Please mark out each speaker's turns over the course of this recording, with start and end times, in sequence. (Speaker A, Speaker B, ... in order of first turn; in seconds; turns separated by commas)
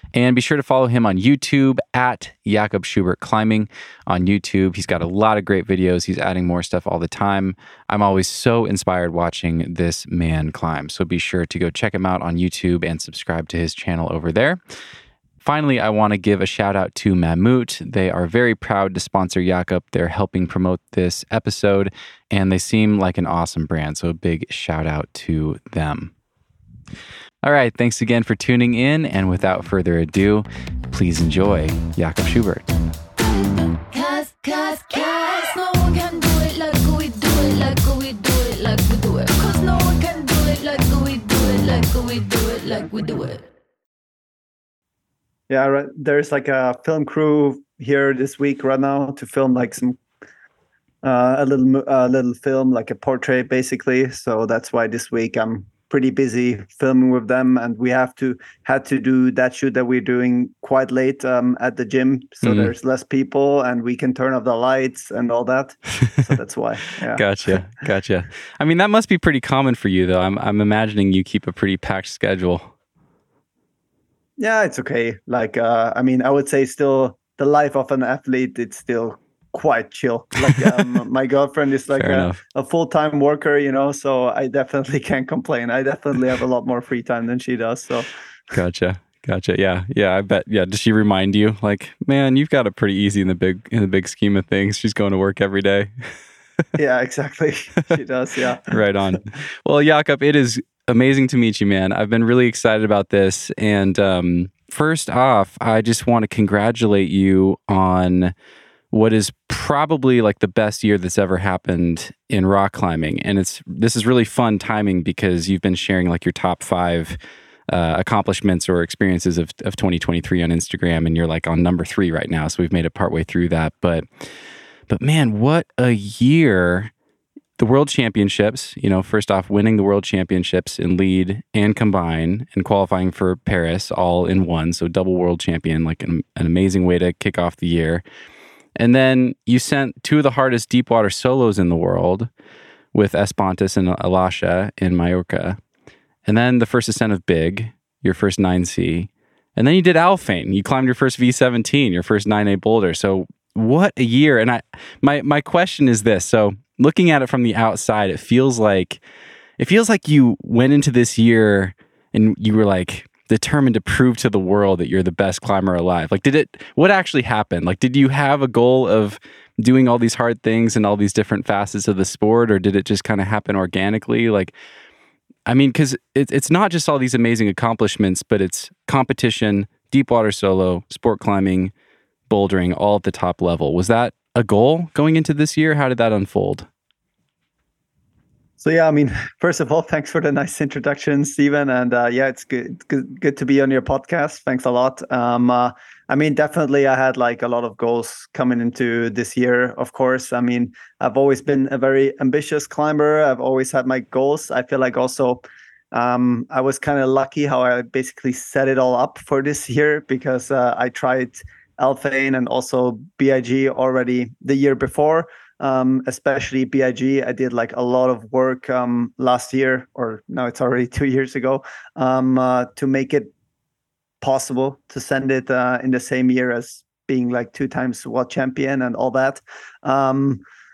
Speaker A: 0.1-14.6, Speaker A: 15.4-26.1, Speaker A: 27.4-32.7, Speaker B: 33.2-43.5, Speaker C: 45.5-50.0, Speaker C: 51.0-67.6, Speaker A: 62.4-62.7, Speaker A: 67.1-72.7, Speaker C: 74.4-88.1, Speaker A: 80.6-80.8, Speaker A: 81.9-82.4, Speaker A: 88.5-95.9, Speaker C: 96.8-98.7, Speaker A: 98.7-108.3, Speaker A: 108.9-117.2, Speaker A: 117.7-124.1, Speaker A: 124.9-126.9, Speaker A: 127.6-138.0, Speaker A: 138.8-142.3, Speaker A: 142.9-145.6, Speaker A: 146.3-159.0, Speaker A: 159.6-174.5, Speaker A: 175.5-181.7, Speaker A: 182.3-186.7, Speaker C: 188.6-223.3, Speaker C: 224.2-230.4